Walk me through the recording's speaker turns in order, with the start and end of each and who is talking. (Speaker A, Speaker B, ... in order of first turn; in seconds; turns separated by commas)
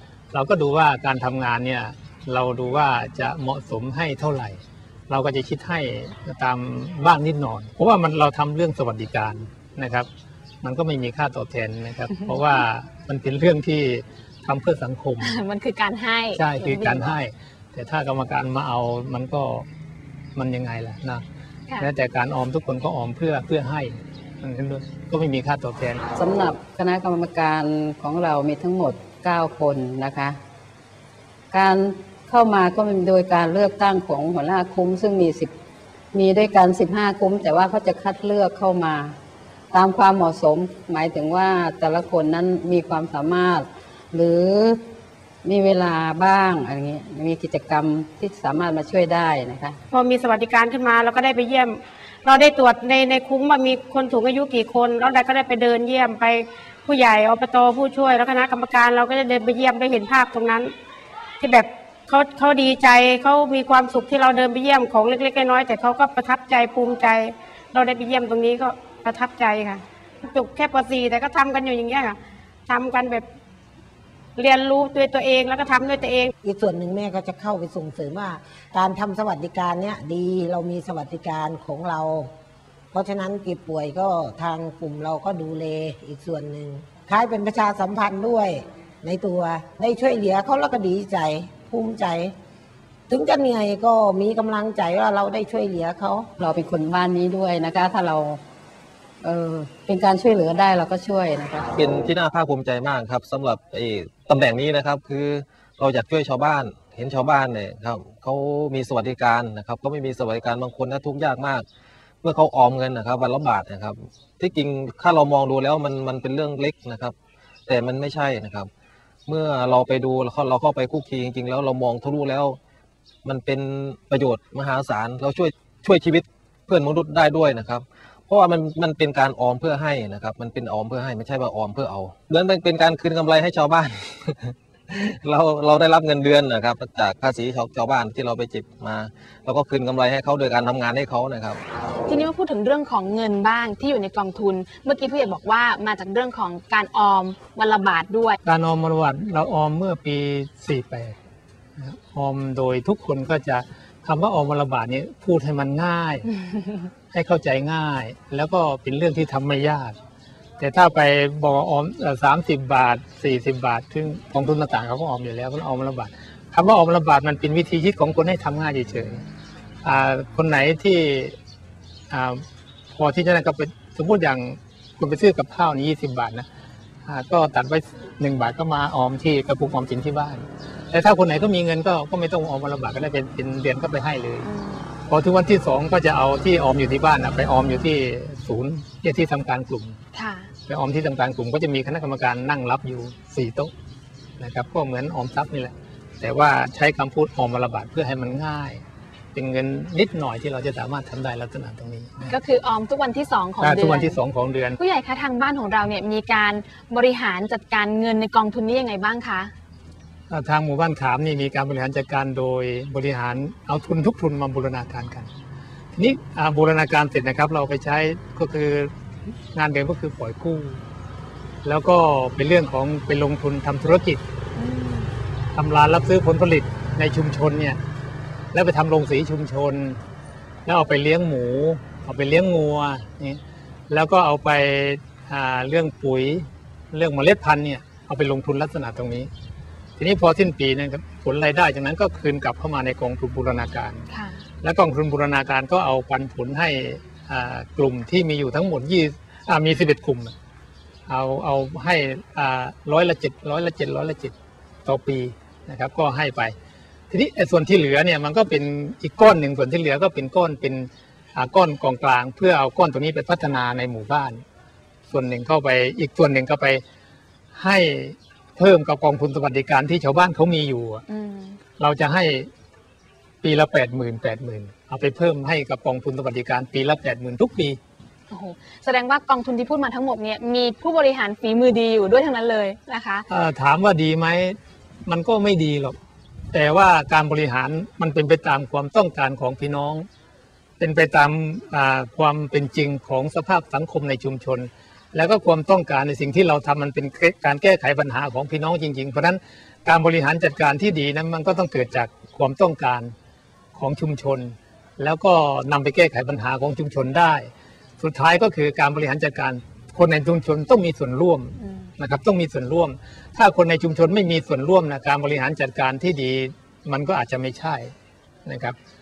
Speaker A: 0.3-10.1, Speaker A: 10.6-15.3, Speaker B: 15.2-17.1, Speaker A: 16.4-19.7, Speaker A: 20.4-21.2, Speaker A: 21.8-26.0, Speaker C: 26.1-30.4, Speaker C: 31.5-35.5, Speaker C: 36.1-39.2, Speaker C: 39.7-44.8, Speaker C: 45.4-49.8, Speaker D: 49.9-60.7, Speaker D: 61.4-73.3, Speaker D: 74.4-76.3, Speaker E: 76.4-82.3, Speaker E: 82.9-92.3, Speaker E: 93.1-96.3, Speaker C: 96.4-98.4, Speaker C: 99.2-101.7, Speaker F: 101.8-111.7, Speaker F: 112.2-117.2, Speaker F: 117.7-118.7, Speaker F: 119.3-122.6, Speaker F: 123.2-141.6, Speaker B: 142.1-148.4, Speaker A: 148.4-151.2, Speaker A: 151.8-156.3, Speaker A: 157.1-160.0, Speaker A: 160.6-169.2, Speaker A: 169.8-171.4, Speaker A: 172.1-172.4, Speaker A: 172.9-176.5, Speaker A: 177.1-184.5, Speaker B: 184.4-184.9, Speaker A: 185.1-190.0, Speaker B: 190.1-190.5, Speaker A: 190.7-193.7, Speaker A: 194.4-198.8, Speaker A: 199.3-202.3, Speaker B: 202.3-204.2, Speaker A: 203.6-204.8, Speaker B: 204.8-209.5, Speaker A: 210.3-215.3, Speaker A: 215.9-218.9, Speaker A: 219.6-220.8, Speaker A: 221.7-224.2, Speaker B: 224.6-225.1, Speaker A: 225.6-227.8, Speaker A: 228.5-230.0, Speaker A: 230.7-239.3, Speaker A: 240.0-244.1, Speaker B: 244.1-244.4, Speaker A: 244.6-250.3, Speaker A: 251.1-256.6, Speaker A: 257.1-264.4, Speaker A: 265.1-266.8, Speaker A: 267.5-271.0, Speaker B: 271.1-271.6, Speaker A: 271.8-272.5, Speaker A: 273.4-277.8, Speaker B: 278.3-283.3, Speaker A: 283.3-286.0, Speaker A: 286.5-290.1, Speaker A: 290.8-303.1, Speaker A: 303.8-317.9, Speaker A: 318.4-318.8